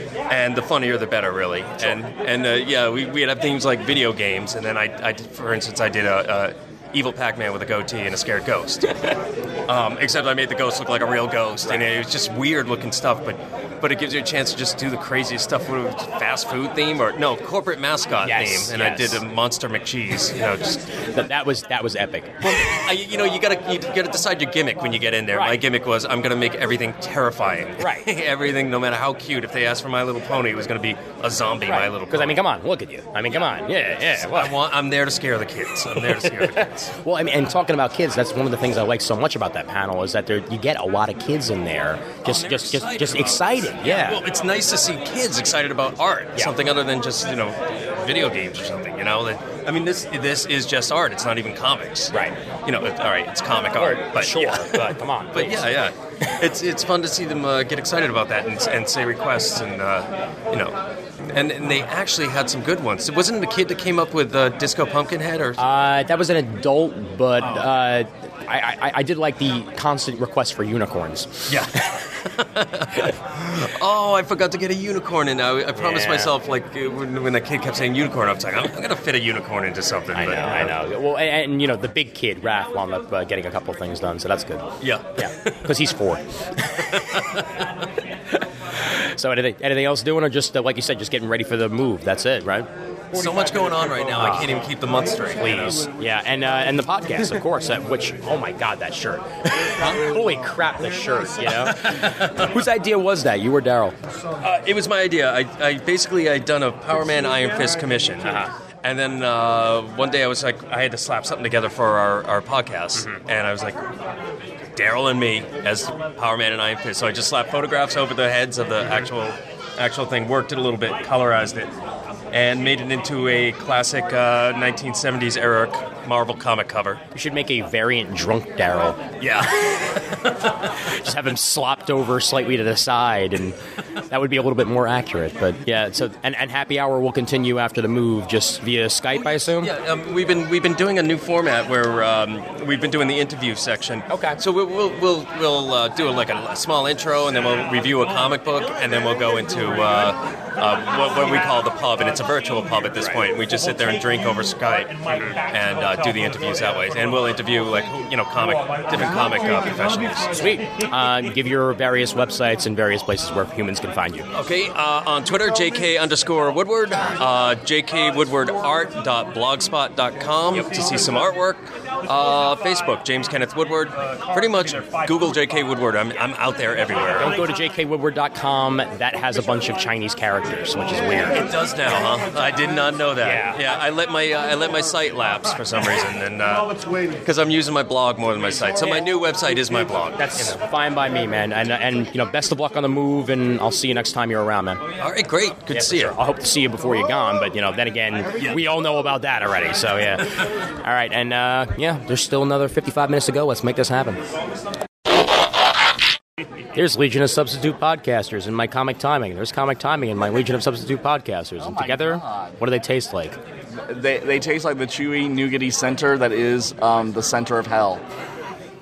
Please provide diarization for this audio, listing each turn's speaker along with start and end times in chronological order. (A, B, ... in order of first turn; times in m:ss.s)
0:00.3-0:08.9 A
0:09.7-0:20.8 A
0:11.6-0:11.9 B
0:18.2-0:19.2 B
0:21.1-0:22.7 B
0:22.4-0:32.4 A
0:25.3-0:25.6 B
0:27.8-0:28.1 B
0:31.7-0:34.5 B
0:34.2-0:36.9 A
0:35.9-0:44.2 B
0:42.2-1:05.6 A
0:53.8-0:55.7 B
1:05.6-1:11.6 B
1:11.5-1:20.7 A
1:15.7-1:16.3 B
1:20.1-1:27.1 B
1:24.8-1:25.6 A
1:29.1-1:32.7 B
1:33.1-1:35.8 A
1:34.0-1:34.6 B
1:35.4-1:44.0 B
1:42.0-1:42.3 A
1:44.4-1:53.8 A
1:48.2-1:48.5 B
1:52.9-1:53.2 B
1:54.8-2:01.7 A
2:02.3-2:07.0 A
2:07.1-2:09.0 B
2:09.2-2:10.5 A
2:10.8-2:13.6 B
2:14.1-2:19.7 B
2:19.1-2:40.4 A
2:24.1-2:24.4 B
2:33.0-2:33.3 B
2:40.3-2:44.3 B
2:44.3-2:57.4 A
2:50.5-2:50.9 B
2:57.1-3:01.4 B
3:01.1-3:06.7 A
3:03.2-3:03.6 B
3:07.2-3:10.5 A
3:10.1-3:14.8 B
3:15.0-3:16.2 A
3:15.7-3:24.2 B
3:26.7-3:33.4 B
3:31.6-3:32.5 C
3:33.8-3:38.0 C